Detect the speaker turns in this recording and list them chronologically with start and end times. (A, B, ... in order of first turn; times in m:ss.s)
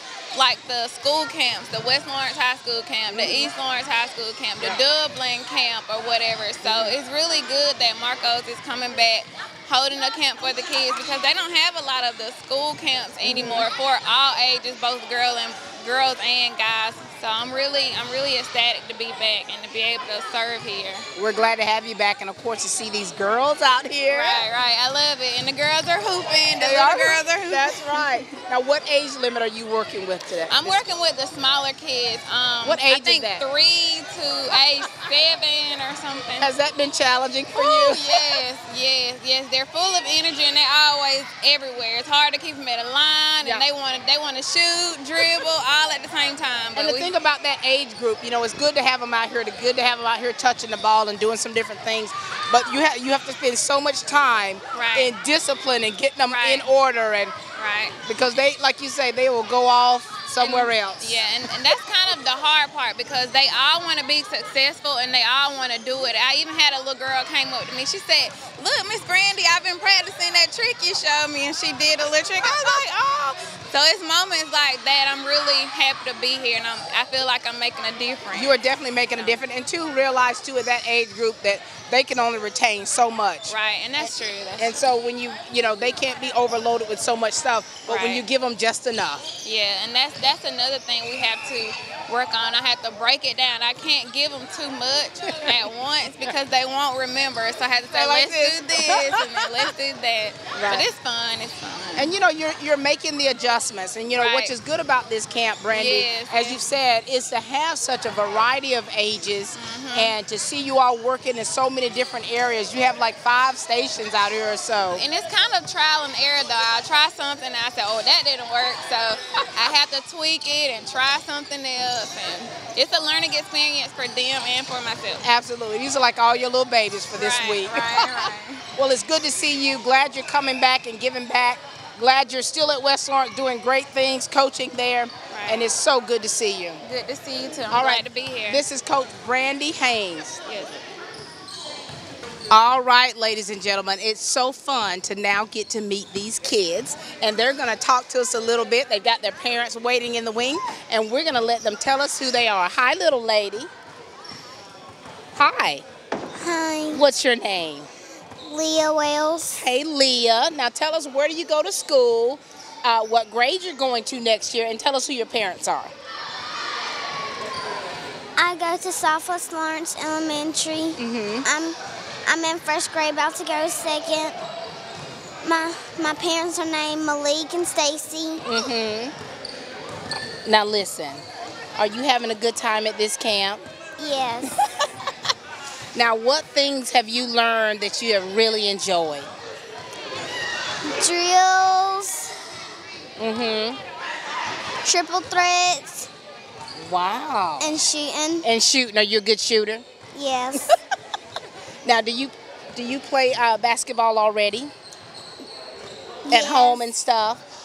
0:00.3-0:21.0 A
0:03.1-0:03.5 B
0:06.6-0:07.0 B
0:13.2-0:13.7 B
0:21.2-0:24.4 B
0:24.1-0:28.0 A
0:26.6-0:30.8 B
0:30.5-0:36.5 A
0:32.6-0:33.4 B
0:36.4-0:38.4 B
0:37.5-0:47.1 A
0:46.7-0:57.4 B
0:54.7-0:55.1 A
0:56.3-0:56.6 A
0:57.6-0:58.0 A
0:58.0-1:01.2 B
1:00.4-1:18.6 A
1:18.3-1:29.3 B
1:23.5-1:24.8 A
1:27.9-1:28.2 A
1:29.4-1:42.2 A
1:37.9-1:39.7 B
1:40.5-1:40.8 B
1:42.0-1:55.0 B
1:44.2-1:44.5 A
1:45.7-1:46.6 A
1:49.5-1:50.1 A
1:54.9-2:05.2 A
2:05.2-2:16.8 B
2:07.1-2:08.6 A
2:15.3-2:15.6 A
2:16.8-2:18.6 A
2:17.7-2:20.4 B
2:20.5-2:20.8 A
2:22.5-2:33.7 B
2:35.3-2:35.8 B
2:36.4-2:37.0 C
2:36.9-2:37.9 B
2:38.4-2:39.6 C
2:39.5-2:45.9 B
2:48.4-2:54.4 C
2:51.0-2:51.4 B
2:55.4-2:58.4 C
2:58.4-2:59.1 B
3:00.4-3:01.2 B
3:01.8-3:03.6 B
3:04.0-3:04.5 C
3:05.9-3:09.3 B
3:11.0-3:12.3 C
3:13.2-3:13.8 B
3:14.8-3:16.1 C
3:16.8-3:17.7 B
3:17.6-3:18.4 C
3:18.4-3:19.8 B
3:20.1-3:20.7 C
3:21.8-3:24.7 B
3:26.3-3:26.8 C
3:26.3-3:27.4 B